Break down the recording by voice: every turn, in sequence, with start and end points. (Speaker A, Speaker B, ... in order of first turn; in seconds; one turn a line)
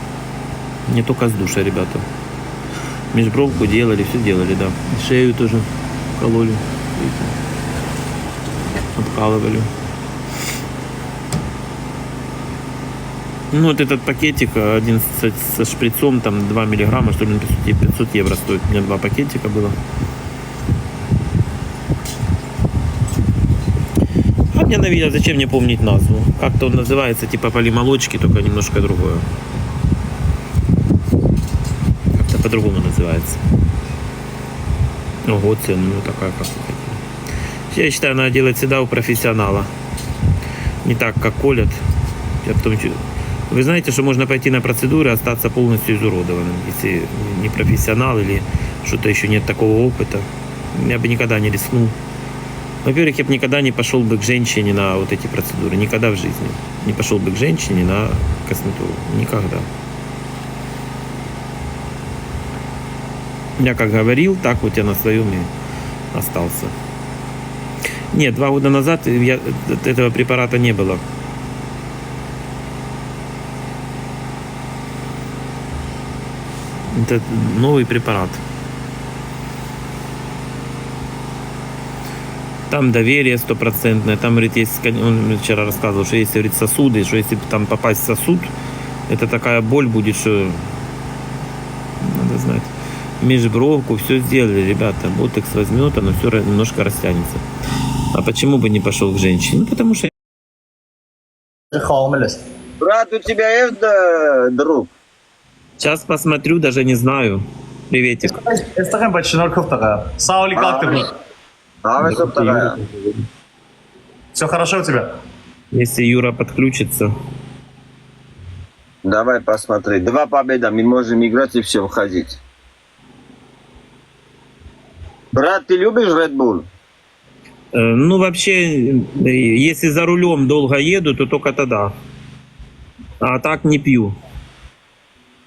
Speaker A: 0.9-2.0
Speaker A: 3.1-5.7
Speaker A: 6.2-7.4
Speaker A: 8.9-9.7
Speaker A: 13.5-19.8
Speaker A: 24.5-29.2
Speaker A: 32.1-33.4
Speaker A: 35.3-37.0
Speaker A: 37.7-39.7
Speaker A: 40.8-41.8
Speaker A: 42.4-43.0
Speaker A: 43.5-51.9
Speaker A: 52.8-59.7
Speaker A: 63.6-65.5
Speaker A: 66.1-66.7
Speaker A: 68.1-71.0
Speaker A: 76.9-78.4
Speaker A: 82.7-88.5
Speaker A: 89.1-90.6
Speaker A: 92.0-97.4
Speaker A: 98.1-100.1
Speaker B: 101.7-102.4
Speaker C: 102.8-104.9
Speaker A: 105.8-108.4
Speaker B: 108.2-111.1
Speaker C: 110.5-111.0
Speaker C: 111.8-112.8
Speaker A: 112.0-113.2
Speaker B: 114.3-115.1
Speaker A: 115.7-117.1
Speaker C: 119.0-122.4
Speaker C: 125.3-126.7
Speaker A: 127.7-131.9
Speaker A: 133.2-134.2